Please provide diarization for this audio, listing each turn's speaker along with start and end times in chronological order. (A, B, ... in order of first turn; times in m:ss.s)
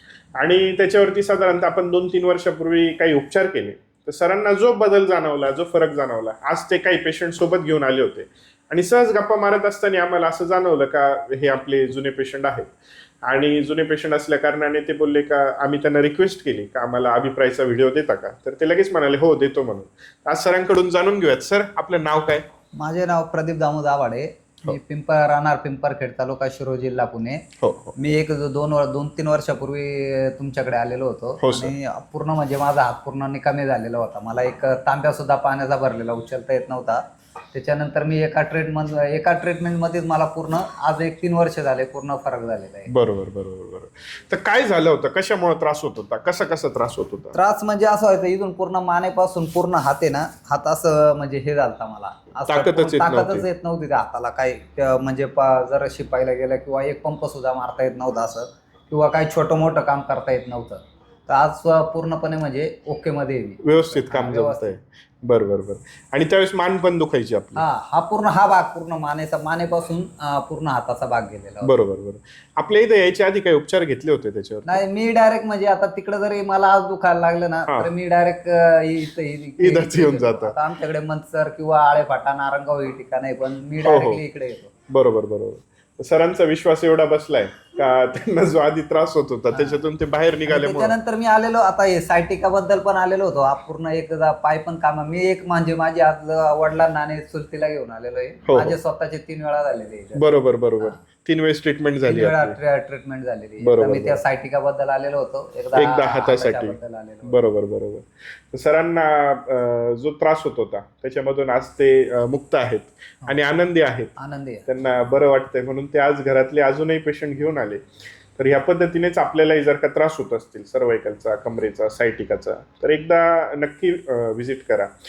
0:00.4-0:12.7 A
0:13.2-0:22.4 A
0:22.8-0:27.4 B
0:27.6-0:27.9 A
0:28.0-0:37.0 B
0:31.4-0:31.7 A
0:37.5-0:42.9 B
0:42.9-0:47.4 A
0:47.3-1:04.8 B
0:52.5-0:53.4 A
1:03.6-1:07.6 A
1:07.6-1:11.7 B
1:11.6-1:14.8 A
1:14.7-1:24.7 B
1:19.6-1:20.6 A
1:23.8-1:24.2 A
1:24.9-1:31.0 A
1:29.5-1:29.8 B
1:30.4-1:40.3 B
1:38.5-1:38.8 A
1:40.1-1:42.6 A
1:42.0-1:47.4 B
1:43.6-1:44.2 A
1:45.7-1:54.1 A
1:54.2-1:54.6 B
1:54.7-1:57.8 A
1:58.4-2:04.9 A